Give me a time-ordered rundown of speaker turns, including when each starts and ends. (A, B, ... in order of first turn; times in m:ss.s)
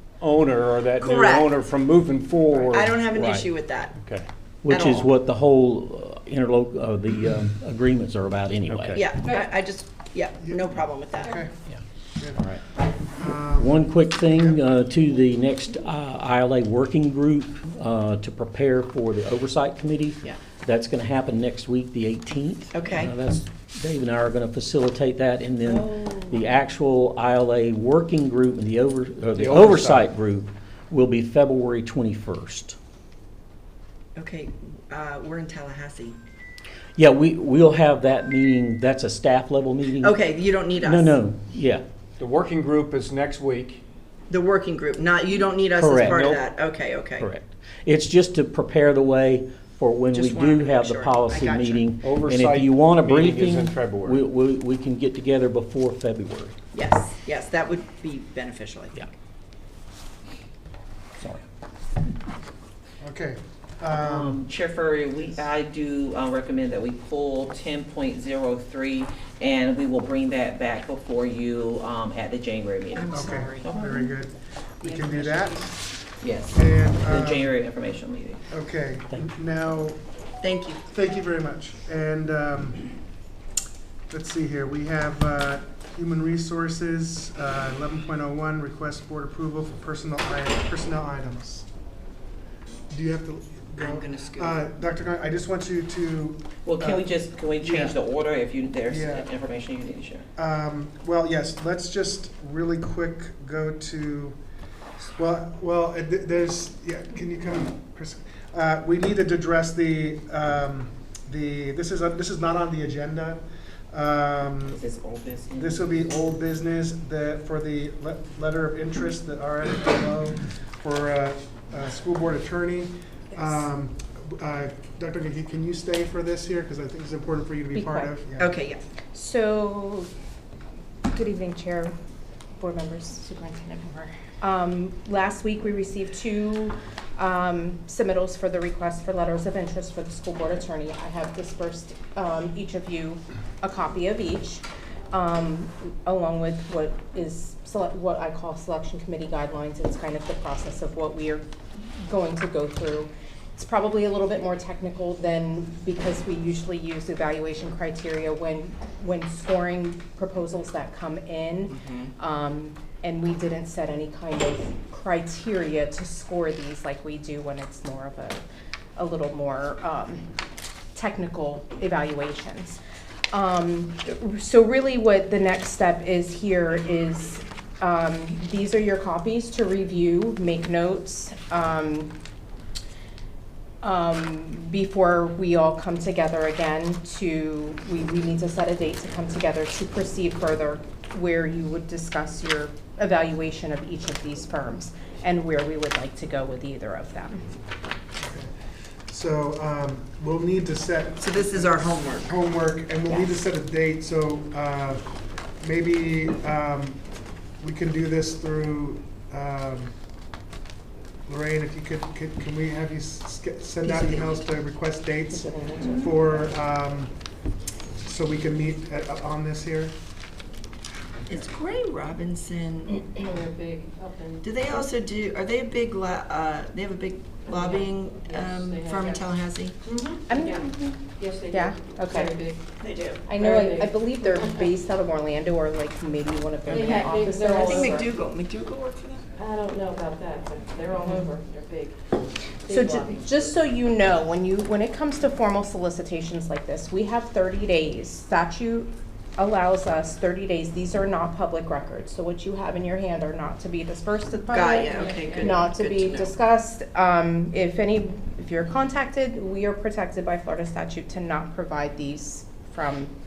0:00.2-0:03.4 A
0:01.0-0:01.5 B
0:02.7-0:04.0 B
0:04.0-0:04.3 A
0:04.6-0:09.0 C
0:04.7-0:05.1 B
0:08.6-0:09.1 A
0:08.9-0:11.3 B
0:11.2-0:11.5 D
0:12.2-0:12.5 D
0:13.2-0:14.5 D
0:13.6-0:32.8 C
0:22.7-0:23.1 B
0:25.6-0:26.4 B
0:29.3-0:30.1 A
0:34.2-0:36.2 B
0:37.0-0:41.8 C
0:40.0-0:41.2 B
0:42.2-0:43.8 A
0:44.3-0:47.3 B
0:45.7-0:46.3 C
0:46.0-0:46.4 A
0:47.2-0:56.5 C
0:50.1-0:51.9 B
0:52.0-0:54.2 A
0:56.7-0:59.1 B
1:03.0-1:04.4 D
1:03.9-1:14.1 E
1:12.9-1:13.7 B
1:13.1-1:15.8 D
1:14.8-1:15.6 B
1:16.2-1:18.4 E
1:16.5-1:17.5 D
1:18.5-1:20.0 D
1:20.4-1:20.8 B
1:20.9-1:22.9 D
1:24.1-1:31.7 D
1:32.9-1:38.0 D
1:33.8-1:34.6 B
1:36.6-1:40.2 E
1:38.8-1:39.3 D
1:40.4-1:44.4 D
1:45.2-1:54.8 D
1:54.7-1:55.8 E
1:55.6-2:08.5 D
2:07.7-2:08.1 F
2:08.4-2:08.8 B
2:09.1-2:10.1 F
2:11.1-2:11.9 F
2:12.6-2:31.4 F
2:32.0-2:48.4 F
2:41.7-2:42.1 B
2:49.0-2:50.2 F
2:50.9-2:52.8 F
2:53.3-3:02.1 F
3:03.8-3:17.5 F
3:18.2-3:18.5 D
3:19.1-3:25.0 D
3:21.2-3:22.3 B
3:25.6-3:27.0 D
3:27.6-3:29.9 D
3:31.3-3:37.1 D
3:33.8-3:34.2 F
3:35.3-3:36.1 F
3:38.0-3:39.9 D
3:41.3-3:43.2 B
3:43.1-3:44.6 G
3:44.4-3:49.8 B
3:47.4-3:49.2 G
3:49.8-3:52.6 G
3:50.3-3:52.4 F
3:52.8-3:53.2 B
3:53.3-3:58.0 F
3:53.3-3:54.5 G
3:56.7-3:58.0 G
3:57.5-3:59.2 B
3:59.4-4:01.9 G
4:02.7-4:03.4 G
4:02.7-4:23.1 F
4:14.5-4:16.3 B
4:14.9-4:15.6 G